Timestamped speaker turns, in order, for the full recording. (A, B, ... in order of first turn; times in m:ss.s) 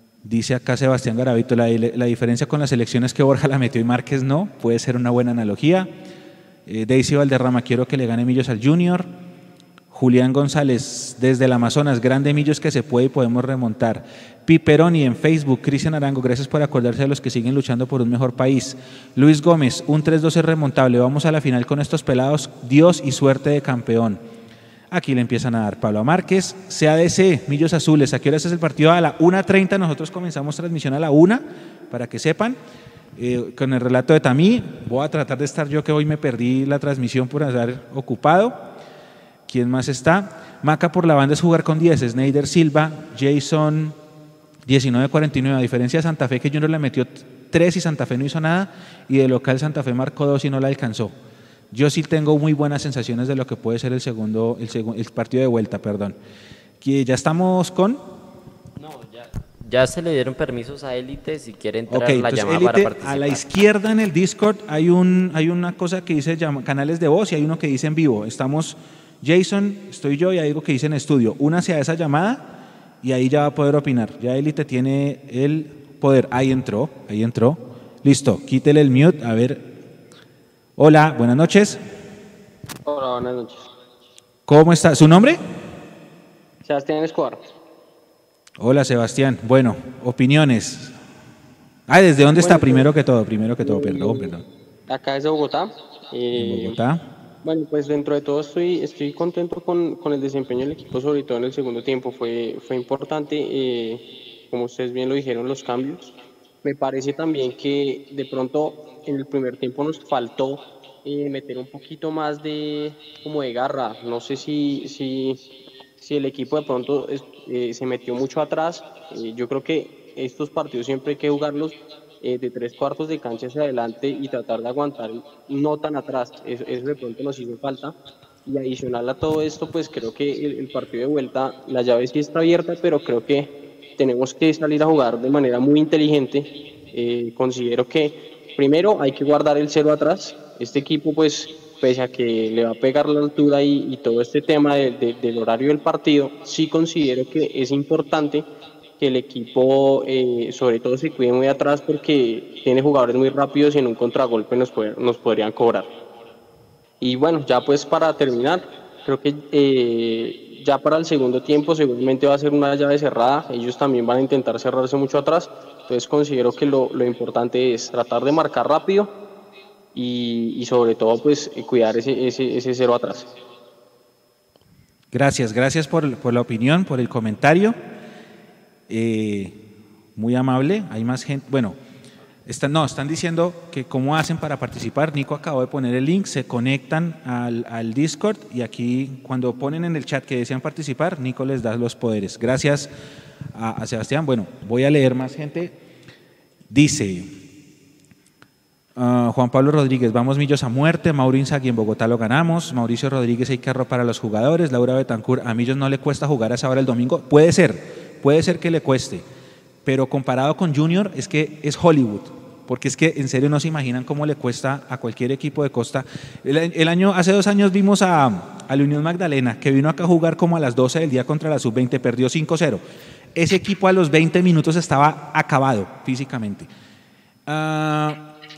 0:00.2-0:05.9 A
0:06.7-0:09.1 A
0:09.9-0:24.2 A
0:24.9-0:32.6 A
0:33.2-0:38.7 A
0:39.5-0:44.0 A
0:44.7-0:51.2 A
0:51.7-0:56.2 A
0:56.8-0:58.0 A
0:58.8-1:03.4 B
1:01.9-1:12.4 A
1:13.0-1:19.7 A
1:20.8-1:21.8 A
1:22.9-1:23.7 C
1:24.5-1:25.4 A
1:26.6-1:27.4 C
1:28.6-1:30.9 A
1:31.9-1:34.4 A
1:32.4-1:32.9 C
1:33.6-1:34.4 C
1:34.9-1:36.8 C
1:36.3-1:37.0 A
1:37.4-1:46.1 C
1:46.6-1:55.4 C
1:56.0-2:35.9 C
2:37.0-2:49.1 C
2:49.9-2:53.3 C
2:55.1-2:57.8 A
2:58.9-2:59.6 A
3:00.2-3:01.8 A
3:02.5-3:12.9 A
3:13.5-3:15.7 A
3:16.7-3:17.3 A
3:19.0-3:29.2 A
3:29.8-3:42.8 A
3:43.4-3:46.7 A
3:47.5-3:48.2 A